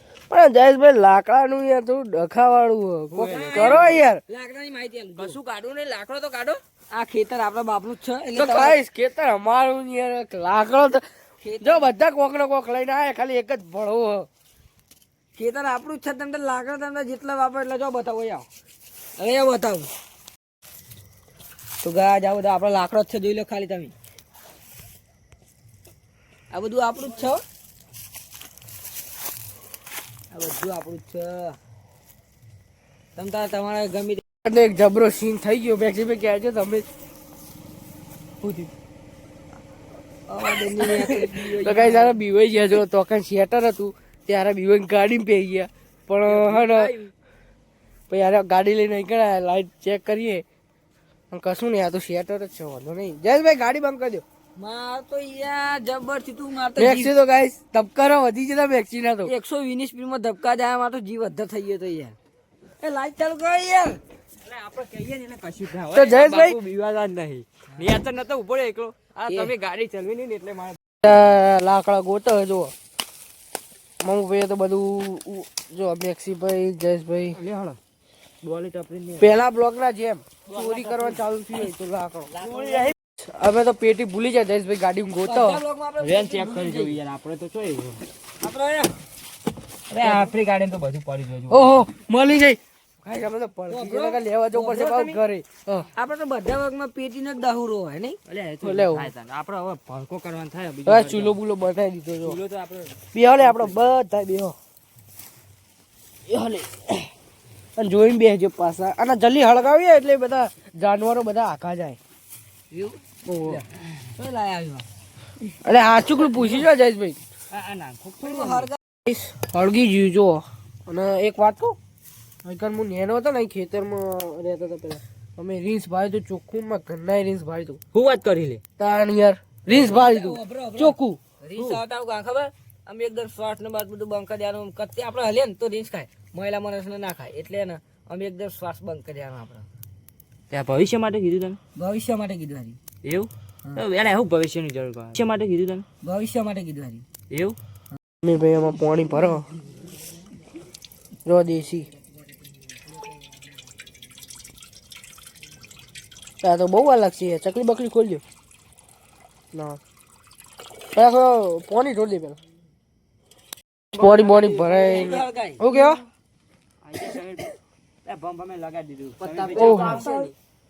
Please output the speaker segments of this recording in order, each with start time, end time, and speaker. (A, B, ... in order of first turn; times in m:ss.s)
0:00.3-0:04.2 A
0:03.1-0:04.0 B
0:03.3-0:05.4 C
0:05.2-0:06.6 B
0:06.9-0:08.8 C
0:08.3-0:11.0 A
0:11.4-0:11.9 C
0:11.6-0:14.3 A
0:15.4-0:18.5 C
0:19.2-0:19.9 C
0:21.8-0:23.9 C
0:26.5-0:27.4 C
0:30.3-0:31.6 C
0:33.2-0:34.2 C
0:34.4-0:36.8 A
0:40.3-0:42.2 C
0:40.8-0:46.9 A
0:46.3-0:46.8 B
0:46.5-0:47.1 C
0:48.1-0:50.4 A
0:51.3-0:54.2 A
0:54.6-0:57.1 C
0:56.8-0:59.3 A
0:59.2-1:02.2 C
1:02.8-1:04.0 C
1:04.4-1:10.8 B
1:05.9-1:06.6 A
1:11.0-1:12.7 A
1:14.0-1:17.4 A
1:17.4-1:17.8 B
1:18.4-1:19.3 B
1:19.2-1:22.4 A
1:20.5-1:21.2 B
1:22.3-1:22.9 B
1:22.4-1:22.9 C
1:23.3-1:25.6 A
1:25.2-1:27.0 C
1:26.0-1:28.0 B
1:28.4-1:28.9 C
1:29.9-1:31.7 B
1:30.0-1:30.3 A
1:31.5-1:35.9 A
1:33.7-1:34.2 C
1:34.6-1:35.2 B
1:36.0-1:38.2 C
1:38.3-1:41.4 B
1:38.6-1:39.1 A
1:40.9-1:42.4 A
1:42.2-1:43.7 B
1:43.1-1:44.6 A
1:46.3-1:47.0 A
1:47.8-1:52.0 A
1:52.7-1:53.6 C
1:53.3-1:53.6 A
1:54.2-1:54.9 C
1:55.6-1:57.2 A
1:57.5-1:58.7 B
1:58.2-1:58.8 C
1:59.1-2:01.8 A
2:02.4-2:07.8 A
2:07.9-2:08.6 B
2:08.8-2:11.2 A
2:09.7-2:19.7 C
2:20.5-2:21.6 B
2:21.8-2:22.8 C
2:23.0-2:25.8 B
2:26.0-2:27.0 C
2:27.3-2:27.6 B
2:28.2-2:29.5 A
2:31.3-2:31.9 A
2:36.4-2:38.2 A
2:39.5-2:39.8 A
2:40.9-2:42.4 A
2:44.0-2:46.0 A
2:44.0-2:45.1 B
2:44.6-2:45.7 C
2:46.8-2:47.5 B
2:48.0-2:50.2 B
2:49.2-2:50.3 C
2:49.5-2:50.1 A